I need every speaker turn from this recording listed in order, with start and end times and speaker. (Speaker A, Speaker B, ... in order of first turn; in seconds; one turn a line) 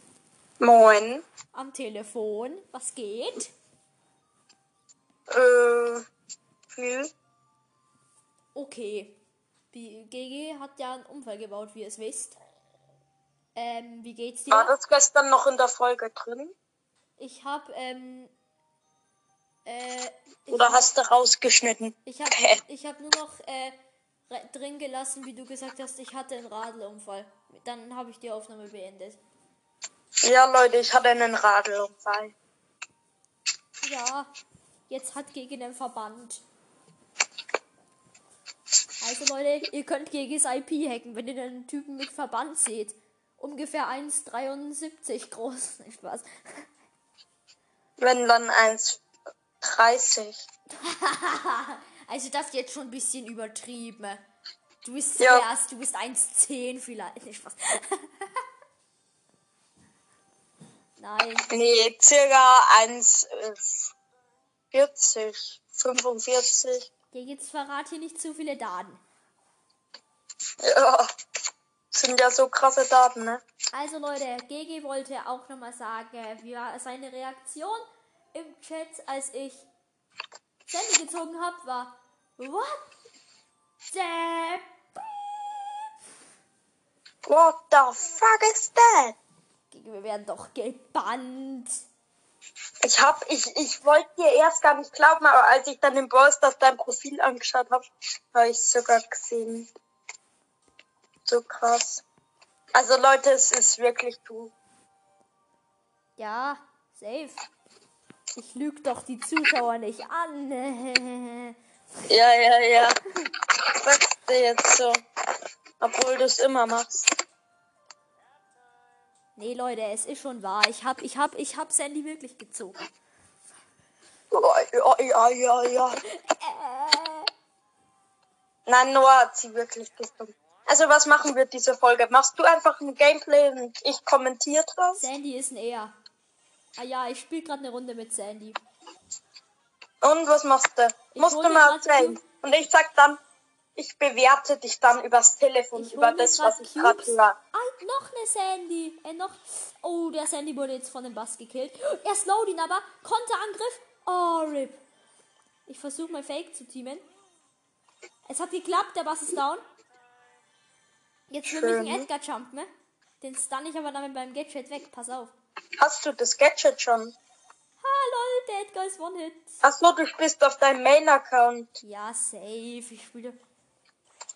Speaker A: 0.6-1.2
Speaker B: 1.5-3.5
Speaker A: 5.3-6.1
Speaker A: 6.7-7.1
Speaker B: 8.6-9.2
Speaker B: 9.7-12.4
Speaker B: 13.6-14.7
Speaker A: 14.5-16.5
Speaker B: 17.2-18.3
Speaker B: 19.7-20.9
Speaker A: 20.5-22.6
Speaker B: 22.1-23.8
Speaker B: 24.3-29.2
Speaker A: 30.2-32.3
Speaker B: 33.8-34.3
Speaker B: 34.9-36.4
Speaker B: 39.0-46.7
Speaker A: 48.0-49.0
Speaker A: 49.6-50.4
Speaker B: 50.7-54.2
Speaker B: 54.8-58.3
Speaker A: 55.2-55.5
Speaker B: 61.0-61.5
Speaker A: 61.5-63.8
Speaker A: 64.7-66.9
Speaker B: 67.1-69.0
Speaker A: 70.6-71.1
Speaker A: 71.9-73.4
Speaker B: 73.7-77.8
Speaker B: 78.3-79.7
Speaker B: 80.7-82.9
Speaker B: 83.9-84.7
Speaker A: 87.3-89.2
Speaker B: 89.7-91.8
Speaker A: 92.8-99.7
Speaker A: 101.3-102.0
Speaker A: 102.7-104.5
Speaker B: 106.2-107.5
Speaker B: 108.4-111.6
Speaker A: 112.1-113.0
Speaker A: 113.6-115.0
Speaker A: 115.8-117.1
Speaker B: 119.4-122.8
Speaker A: 124.3-126.0
Speaker B: 126.0-127.3
Speaker A: 128.7-135.0
Speaker B: 135.0-136.0
Speaker B: 136.8-138.6
Speaker A: 140.0-143.2
Speaker B: 141.1-142.2
Speaker A: 143.8-147.4
Speaker B: 145.8-154.8
Speaker B: 155.7-157.1
Speaker B: 158.3-159.7
Speaker B: 161.3-162.7
Speaker A: 161.5-162.1
Speaker B: 163.2-165.3
Speaker A: 165.8-167.2
Speaker B: 167.8-169.6
Speaker A: 169.6-171.7
Speaker B: 171.8-173.4